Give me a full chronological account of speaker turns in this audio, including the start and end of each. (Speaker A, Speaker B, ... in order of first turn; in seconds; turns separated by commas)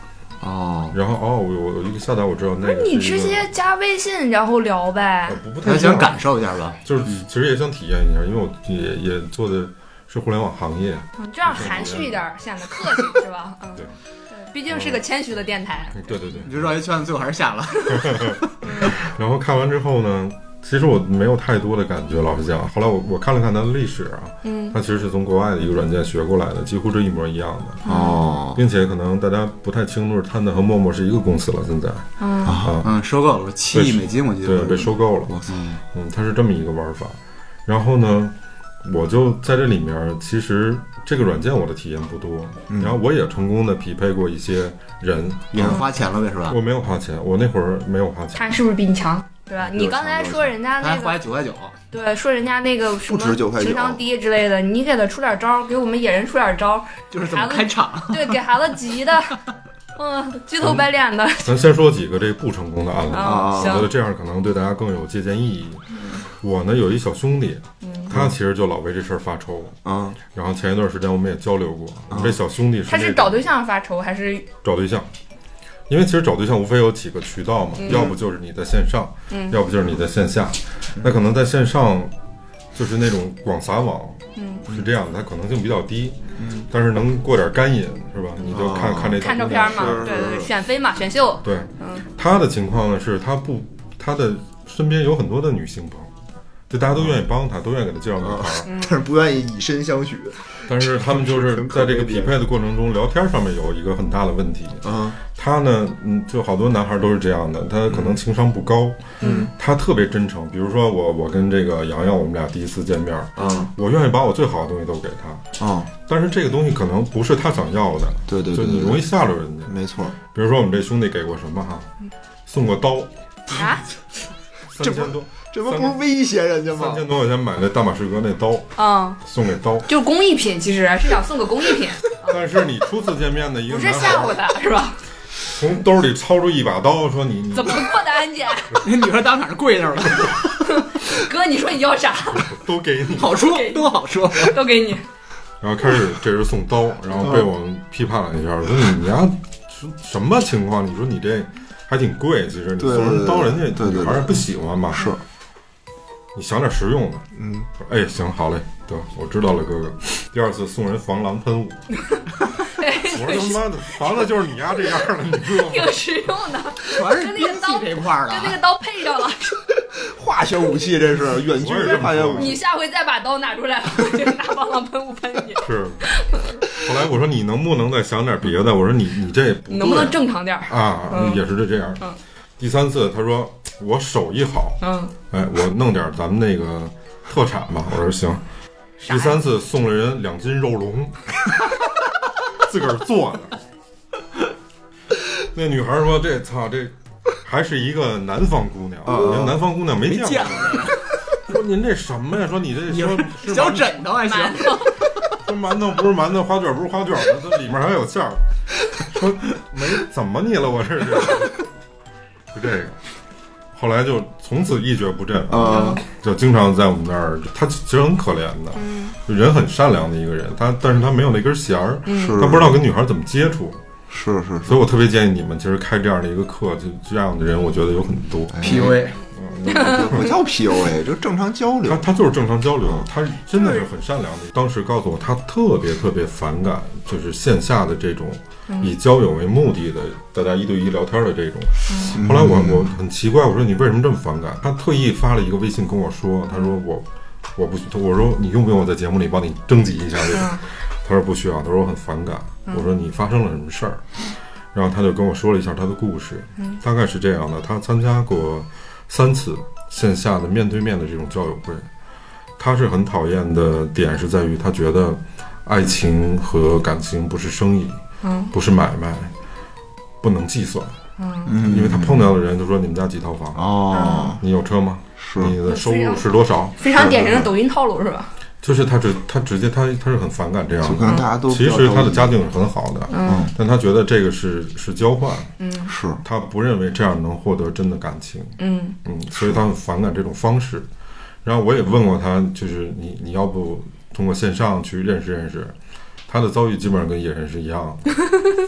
Speaker A: 0.4-1.0, Speaker B: 0.9-3.5, Speaker C: 2.6-5.4, Speaker B: 5.3-6.2, Speaker D: 5.6-7.2, Speaker B: 6.8-12.2, Speaker C: 11.2-13.9, Speaker C: 14.4-16.1, Speaker B: 14.7-15.0, Speaker B: 15.9-16.6, Speaker D: 16.4-18.4, Speaker B: 17.9-27.9, Speaker C: 18.6-18.9, Speaker C: 24.4-24.8, Speaker C: 27.9-28.2, Speaker A: 27.9-28.6, Speaker B: 28.5-32.9, Speaker C: 32.2-32.6, Speaker A: 32.4-32.8, Speaker D: 32.8-34.9, Speaker B: 33.7-35.4, Speaker A: 35.3-35.5, Speaker D: 35.5-35.8, Speaker B: 35.9-45.8, Speaker A: 42.7-43.0, Speaker D: 45.5-46.6, Speaker A: 45.5-45.8, Speaker B: 46.5-48.6, Speaker C: 48.4-51.2, Speaker A: 49.6-50.6, Speaker D: 50.8-51.8, Speaker C: 51.9-59.4, Speaker A: 53.0-54.0, Speaker D: 57.1-58.4, Speaker C: 60.0-61.6, Speaker B: 60.6-60.9, Speaker B: 61.4-69.8, Speaker C: 63.1-63.9, Speaker A: 63.2-63.9, Speaker C: 67.8-68.1, Speaker A: 69.8-70.2, Speaker B: 70.3-73.5, Speaker A: 72.1-72.4, Speaker C: 72.9-74.5, Speaker B: 74.6-75.1, Speaker B: 75.9-82.1, Speaker C: 77.8-78.1, Speaker A: 77.9-78.1, Speaker C: 79.3-79.6, Speaker B: 82.8-86.2, Speaker C: 84.4-84.7, Speaker A: 86.4-86.7, Speaker B: 86.7-90.1, Speaker A: 88.4-90.5, Speaker C: 89.2-92.0, Speaker B: 91.4-96.1, Speaker B: 96.7-98.7, Speaker A: 98.2-102.4, Speaker C: 98.7-99.0, Speaker B: 100.7-115.5, Speaker A: 104.8-105.2, Speaker C: 109.2-109.5, Speaker A: 109.2-109.5, Speaker A: 113.4-113.7, Speaker A: 115.6-115.9, Speaker B: 116.0-119.8, Speaker A: 118.3-119.0, Speaker A: 119.7-120.1, Speaker B: 120.3-121.9, Speaker B: 122.5-123.7, Speaker C: 123.5-123.8, Speaker B: 124.7-126.0, Speaker A: 124.8-127.0, Speaker B: 126.7-129.9, Speaker C: 128.8-129.2, Speaker C: 129.9-132.4, Speaker B: 132.2-134.4, Speaker C: 133.7-135.0, Speaker B: 135.5-137.9, Speaker C: 137.5-138.8, Speaker D: 138.8-140.4, Speaker C: 140.8-142.5, Speaker B: 142.3-143.4, Speaker D: 143.2-144.6, Speaker C: 143.2-145.1, Speaker B: 145.6-155.2, Speaker A: 147.2-147.5, Speaker A: 152.8-155.2, Speaker B: 156.3-157.3, Speaker A: 157.3-157.7, Speaker B: 157.8-161.9, Speaker C: 162.1-163.6, Speaker B: 162.9-166.0, Speaker C: 165.4-169.6, Speaker D: 166.9-168.6, Speaker A: 169.9-172.6, Speaker B: 171.5-172.6, Speaker C: 172.4-176.6, Speaker B: 175.6-176.1, Speaker B: 176.8-182.1, Speaker C: 179.7-181.4, Speaker B: 182.6-188.4, Speaker C: 184.8-185.1, Speaker C: 189.0-189.4, Speaker B: 189.1-191.4, Speaker B: 192.5-193.6, Speaker B: 195.4-204.0, Speaker A: 199.1-199.6, Speaker D: 200.0-201.1, Speaker D: 202.9-204.9, Speaker C: 204.2-205.0, Speaker B: 205.4-208.4, Speaker B: 209.0-211.7, Speaker B: 212.5-213.0, Speaker B: 213.7-223.8, Speaker A: 215.5-216.0, Speaker C: 215.6-216.0, Speaker C: 218.8-219.2, Speaker C: 222.1-222.4, Speaker A: 222.1-222.8, Speaker A: 224.1-224.8, Speaker B: 224.7-230.3, Speaker A: 228.5-229.0, Speaker D: 228.6-229.2, Speaker C: 229.7-230.1, Speaker A: 229.7-232.0, Speaker B: 231.9-254.0, Speaker C: 233.6-233.8, Speaker C: 238.7-238.9, Speaker C: 241.9-242.2, Speaker A: 242.1-242.9, Speaker C: 250.3-250.6, Speaker B: 254.7-261.9, Speaker B: 262.6-268.0, Speaker C: 268.2-268.5, Speaker B: 268.5-269.3, Speaker B: 270.2-271.0, Speaker C: 271.2-271.5, Speaker A: 271.5-272.3, Speaker B: 271.5-277.4, Speaker A: 273.6-274.4, Speaker C: 273.9-274.4, Speaker A: 275.2-275.5, Speaker C: 275.6-276.2, Speaker C: 276.8-278.3, Speaker A: 276.9-277.5, Speaker B: 278.6-285.6, Speaker A: 280.8-282.4, Speaker C: 283.1-283.5, Speaker A: 283.2-283.5, Speaker C: 285.6-285.9, Speaker A: 285.9-286.2, Speaker B: 286.2-290.9, Speaker C: 288.6-289.0, Speaker B: 291.4-295.8, Speaker B: 296.3-298.2